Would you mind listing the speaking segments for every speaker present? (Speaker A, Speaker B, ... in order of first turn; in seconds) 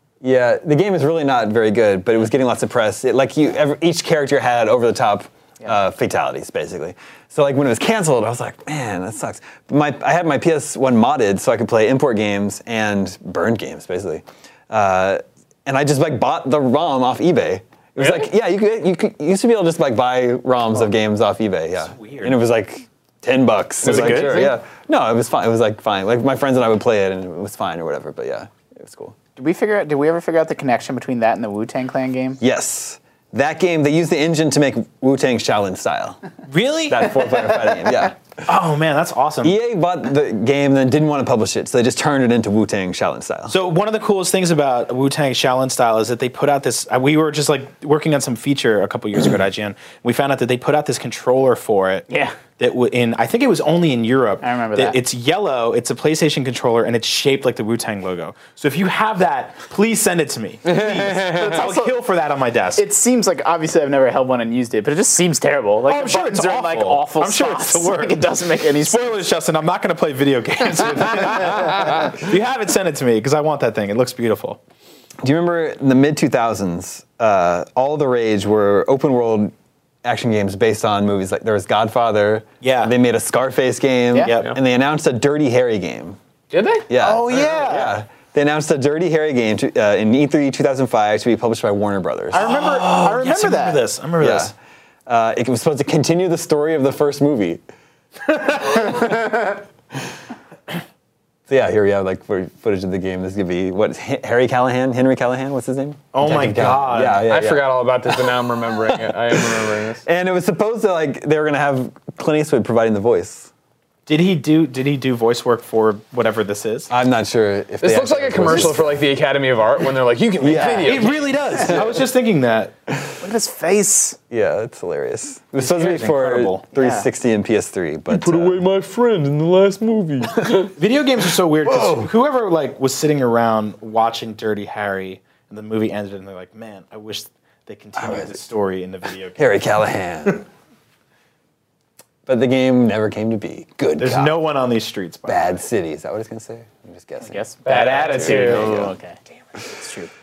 Speaker A: 0.2-29.2, 32.4-36.2, 36.9-38.2, 39.4-43.6, 75.2-86.2, 86.9-92.5, 94.2-94.5, 95.1-97.6, 98.8-99.1, 101.5-108.3, 108.9-113.5, 116.9-119.0, 120.4-121.1, 121.7-122.0, 124.3-128.6, 131.7-132.1, 137.9-138.4, 139.4-140.4, 142.3-144.4, 145.3-147.4, 148.5-148.9
Speaker B: 18.0-18.3, 23.8-24.6, 60.6-61.6, 86.5-86.9, 107.1-110.0, 117.8-121.8, 128.1-130.7, 147.6-148.7
Speaker C: 21.8-22.4, 23.8-24.5, 36.5-37.1, 38.4-39.6, 43.5-62.8, 65.9-74.6, 82.6-82.9, 84.2-84.5, 87.0-87.9, 92.3-94.5, 106.1-107.2, 114.1-116.9, 120.7-122.7, 125.6-126.6, 130.8-139.7, 144.0-145.6, 147.7-148.9
Speaker D: 29.4-32.4, 52.1-52.4, 54.4-55.0, 61.3-62.0, 62.7-69.2, 87.0-87.9, 92.3-93.8, 123.2-124.2, 126.7-127.1, 147.2-150.1